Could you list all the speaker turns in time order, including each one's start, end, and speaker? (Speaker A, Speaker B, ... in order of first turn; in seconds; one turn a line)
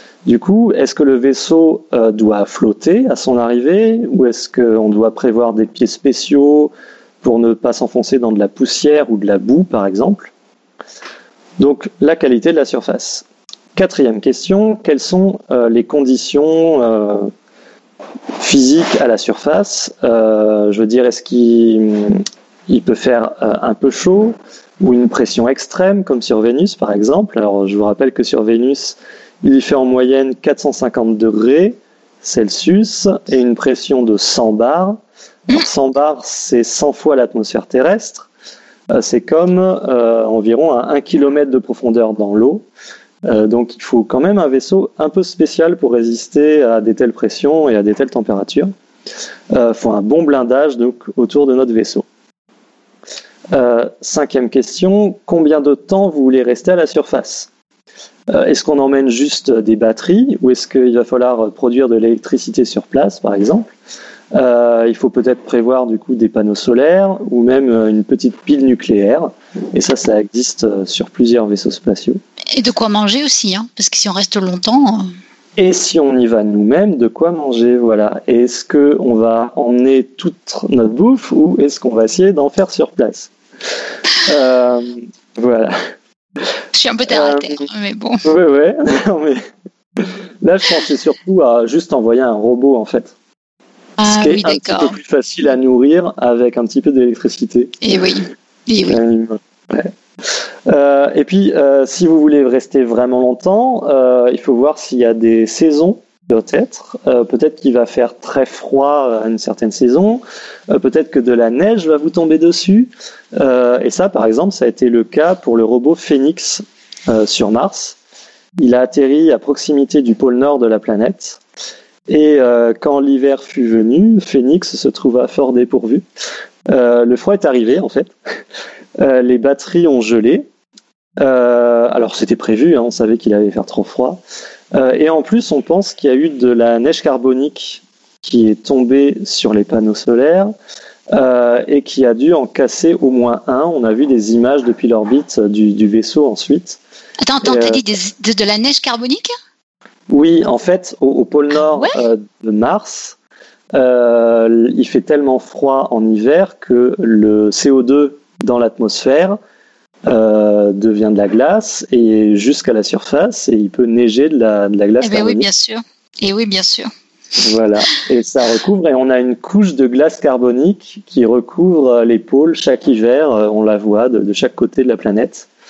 Speaker A: 0.2-6.7
Speaker A: 7.2-10.3
Speaker A: 11.6-17.3
Speaker A: 18.4-38.3
Speaker A: 38.9-42.6
Speaker A: 43.2-48.7
Speaker A: 49.5-52.0
Speaker A: 53.5-57.5
Speaker A: 58.3-63.7
Speaker A: 64.3-72.2
Speaker B: 72.5-75.1
Speaker A: 75.6-83.3
Speaker A: 84.2-85.8
Speaker B: 86.7-88.2
Speaker A: 87.1-87.7
Speaker A: 88.2-89.4
Speaker A: 90.0-93.1
Speaker B: 94.0-95.0
Speaker A: 94.0-97.7
Speaker B: 97.8-99.0
Speaker A: 98.8-99.9
Speaker A: 100.7-118.0
Speaker A: 118.6-121.4
Speaker A: 122.1-126.0
Speaker A: 126.7-128.1
Speaker A: 129.0-130.5
Speaker A: 131.2-134.2
Speaker A: 134.7-140.5
Speaker A: 141.1-146.8
Speaker B: 147.2-149.3
Speaker A: 147.4-147.8
Speaker A: 150.1-153.2
Speaker A: 153.7-159.4
Speaker A: 160.1-165.5
Speaker B: 165.0-166.9
Speaker A: 167.4-175.5